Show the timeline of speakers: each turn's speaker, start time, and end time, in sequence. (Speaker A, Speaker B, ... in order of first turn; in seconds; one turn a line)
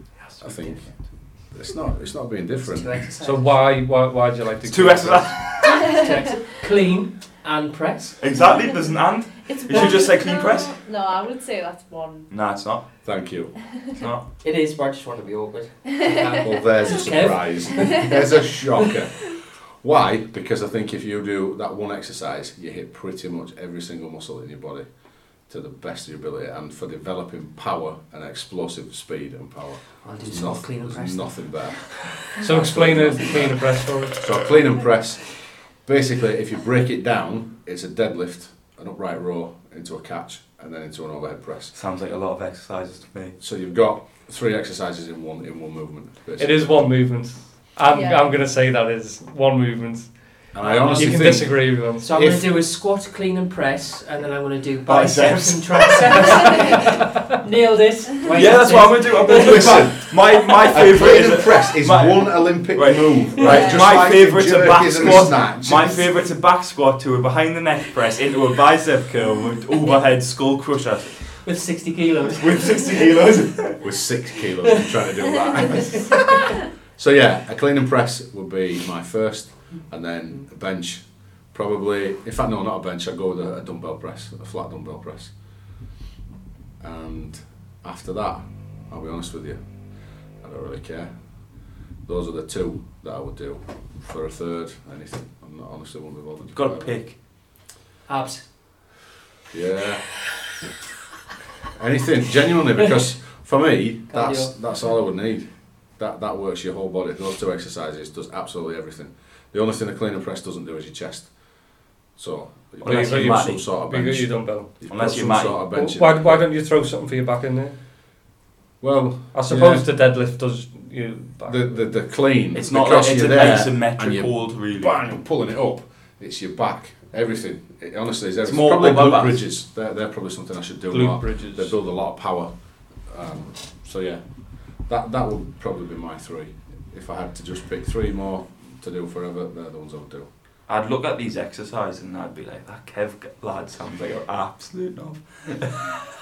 Speaker A: 0.3-0.9
Speaker B: 0.4-3.0
Speaker C: 2.6-3.7
Speaker D: 3.2-5.6
Speaker A: 4.7-6.0
Speaker C: 5.6-8.2
Speaker A: 8.2-10.8
Speaker E: 9.4-12.3
Speaker A: 12.3-12.9
Speaker B: 13.0-13.6
Speaker A: 13.9-14.2
Speaker C: 14.4-18.2
Speaker B: 16.4-41.7
Speaker C: 30.0-33.9
Speaker D: 32.4-34.4
Speaker A: 41.7-43.4
Speaker B: 43.4-46.7
Speaker D: 46.4-52.2
Speaker E: 47.9-48.3
Speaker B: 50.5-52.5
Speaker C: 50.6-59.9
Speaker A: 54.9-56.6
Speaker A: 58.2-71.4
Speaker B: 59.3-66.1
Speaker E: 63.4-63.9
Speaker C: 71.3-73.4
Speaker A: 72.4-73.8
Speaker B: 73.8-85.8
Speaker C: 75.6-76.5
Speaker B: 86.8-97.0
Speaker A: 96.5-97.2
Speaker C: 98.1-99.0
Speaker B: 99.5-100.1
Speaker B: 101.8-116.5
Speaker C: 104.1-104.6
Speaker A: 112.8-113.6
Speaker D: 112.8-114.9
Speaker A: 114.9-115.6
Speaker D: 115.7-117.8
Speaker B: 118.8-119.9
Speaker D: 119.3-121.8
Speaker B: 121.5-140.3
Speaker A: 122.5-125.0
Speaker A: 128.4-129.4
Speaker D: 130.9-131.8
Speaker A: 140.7-145.9